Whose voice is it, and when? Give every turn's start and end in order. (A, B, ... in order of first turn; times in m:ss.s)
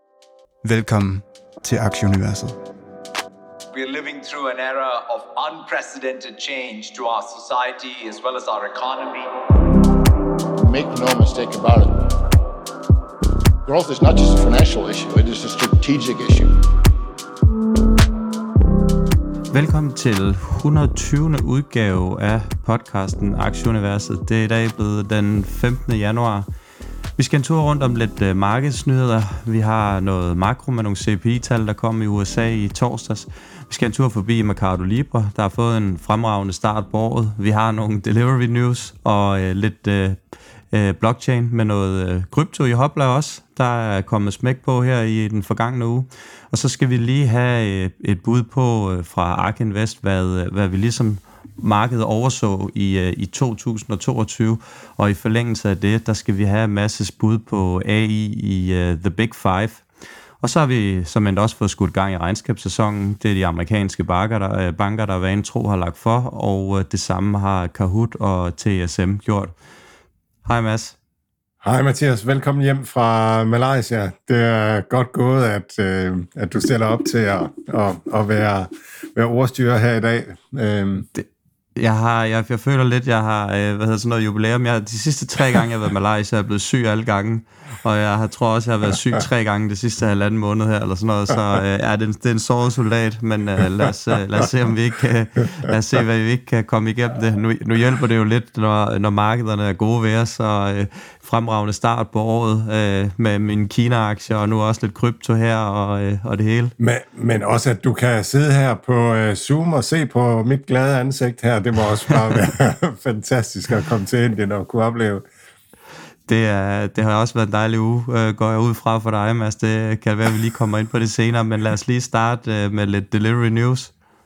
0:00.6-0:02.6 A
0:03.7-0:09.3 B
0:10.6-0:12.1 C
0:13.7-0:16.6 C
0:19.5-0:26.5 D
0:27.2-0:40.2 D
0:40.7-0:59.8 D
1:00.4-1:09.5 D
1:10.4-1:11.0 D
1:11.6-1:21.1 E
1:21.2-1:46.8 D
1:46.8-1:55.2 E
1:56.3-2:03.9 D